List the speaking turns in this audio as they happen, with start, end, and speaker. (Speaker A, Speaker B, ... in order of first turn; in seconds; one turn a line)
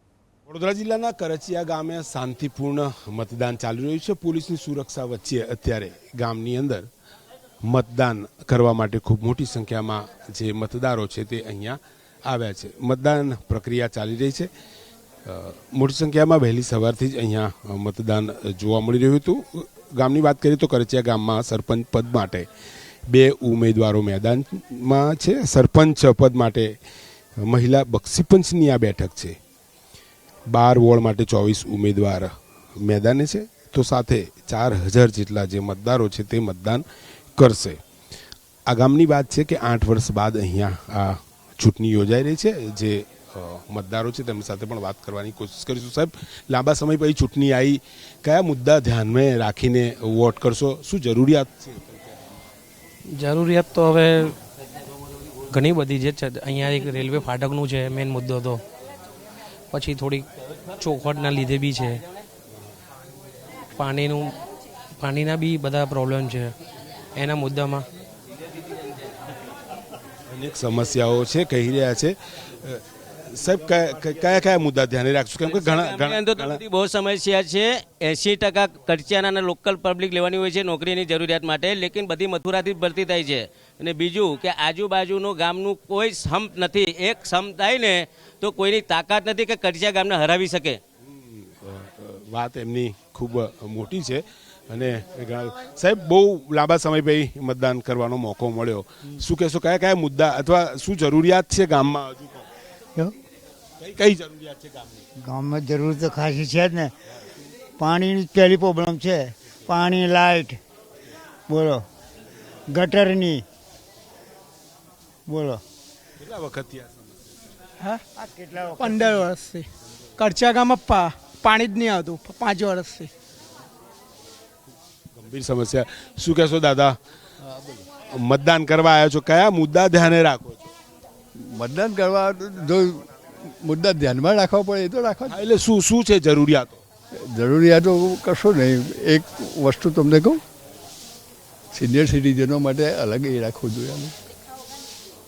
Speaker A: 0.5-6.8
Speaker A: 7.6-14.5
Speaker A: 15.2-22.4
Speaker A: 23.1-26.7
Speaker A: 27.4-29.4
Speaker A: 30.5-32.3
Speaker A: 32.8-36.8
Speaker A: 37.4-37.8
Speaker A: 38.7-52.1
Speaker B: 53.1-54.3
Speaker B: 55.5-58.6
Speaker B: 59.7-60.3
Speaker B: 60.8-62.0
Speaker B: 63.8-64.3
Speaker B: 65.0-66.5
Speaker B: 67.2-67.8
Speaker A: 70.3-76.6
Speaker C: 75.5-90.8
Speaker A: 91.0-102.5
Speaker A: 103.8-105.0
Speaker D: 105.2-106.9
Speaker D: 107.8-110.6
Speaker D: 111.5-111.8
Speaker D: 112.7-113.4
Speaker D: 115.2-115.6
Speaker A: 116.2-117.3
Speaker D: 118.2-119.2
Speaker E: 118.8-123.1
Speaker A: 125.1-127.0
Speaker A: 128.1-130.7
Speaker F: 131.5-135.3
Speaker A: 135.3-136.8
Speaker F: 137.3-140.4
Speaker F: 141.7-144.1